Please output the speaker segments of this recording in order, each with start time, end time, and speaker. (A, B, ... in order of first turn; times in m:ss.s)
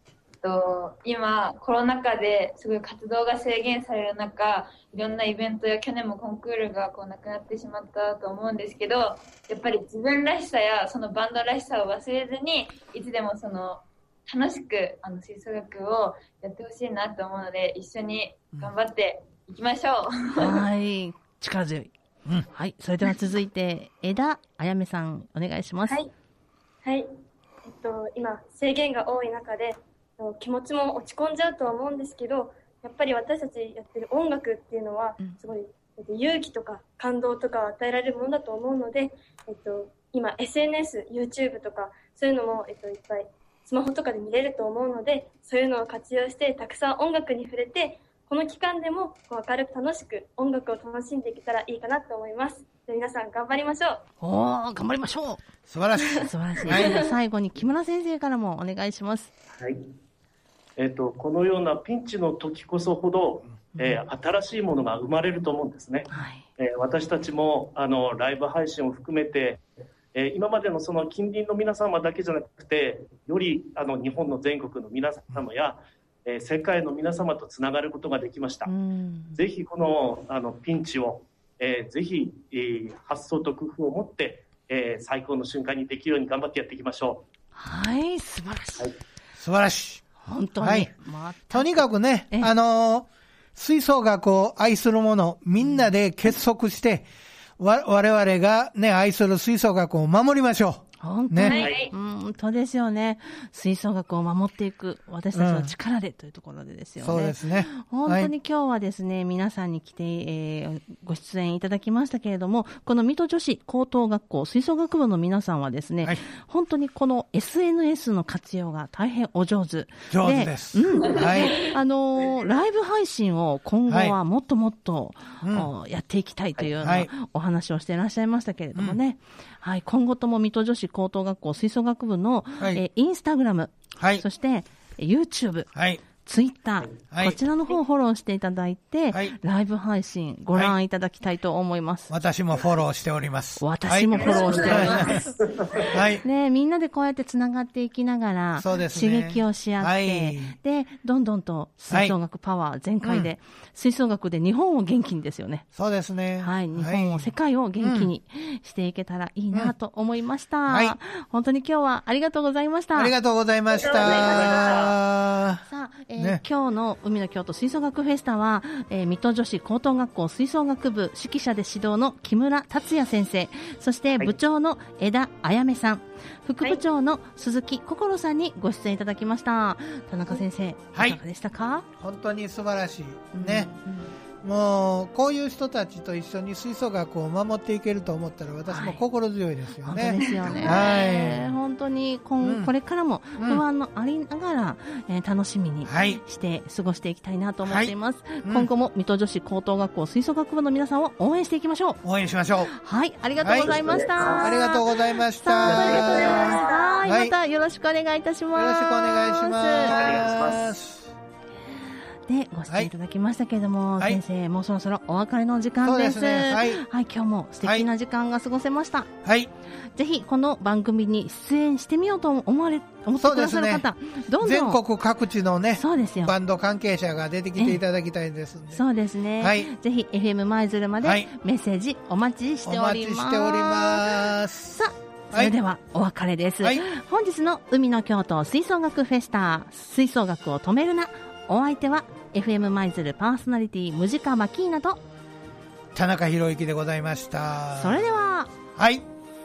0:00.4-0:20.6 A
0:20.4-0:21.9 B
0:22.5-0:26.0 B
0:26.8-0:27.1 C
0:27.6-0:54.0 C
0:54.2-0:55.4 B
0:55.7-0:57.0 D
0:56.1-0:59.3 B
0:56.7-0:57.1 C
0:59.6-0:59.9 E
1:00.8-1:18.7 E
1:06.1-1:06.4 B
1:18.6-1:19.4 B
1:19.3-1:27.2 E
1:27.5-1:28.9 B
1:29.4-1:30.0 D
1:30.2-1:32.5 B
1:30.6-1:30.9 D
1:31.5-1:37.1 D
1:37.6-1:41.6 D
1:41.0-2:15.7 B
1:41.4-1:41.9 A
1:41.5-1:41.8 E
1:45.3-1:45.7 D
1:47.0-1:48.3 D
2:00.1-2:01.6 D
2:03.9-2:04.2 D
2:05.4-2:05.7 D
2:06.8-2:07.1 D
2:14.0-2:14.2 D
2:15.7-2:16.0 D
2:16.2-2:22.1 B
2:17.1-2:17.4 D
2:22.1-2:25.3 D
2:23.6-2:25.3 B
2:24.2-2:25.3 A
2:24.6-2:24.9 E
2:25.6-2:25.9 E
2:25.9-2:26.2 D
2:26.2-2:35.7 B
2:28.6-2:30.6 D
2:31.9-2:32.1 D
2:33.0-2:33.3 D
2:35.7-2:38.1 D
2:36.4-2:43.1 B
2:40.7-2:41.0 D
2:42.9-2:45.6 D
2:43.7-2:44.9 A
2:44.0-2:44.9 E
2:44.0-2:44.5 C
2:45.6-3:01.8 B
2:46.2-2:46.4 D
3:00.9-3:01.2 D
3:02.0-3:03.7 D
3:03.3-3:04.1 B
3:04.4-3:11.6 D
3:08.7-3:09.0 B
3:09.8-3:22.0 B
3:12.4-3:12.7 D
3:13.4-3:13.6 D
3:15.8-3:16.2 D
3:17.6-3:18.7 D
3:22.0-3:22.7 D
3:22.7-3:30.0 B
3:23.4-3:27.3 D
3:23.6-3:24.6 E
3:25.6-3:26.5 E
3:25.7-3:27.1 C
3:28.5-3:31.1 D
3:29.8-3:30.8 E
3:31.7-3:39.1 B
3:35.8-3:36.8 D
3:39.2-3:39.5 D
3:39.9-3:44.8 B
3:43.2-3:43.8 D
3:44.4-3:48.8 D
3:45.7-3:46.3 B
3:48.7-4:05.0 B
3:49.4-3:49.7 D
3:51.0-3:51.3 D
3:52.6-3:54.8 D
4:05.9-4:08.0 D
4:07.8-4:08.5 B
4:08.7-4:09.1 D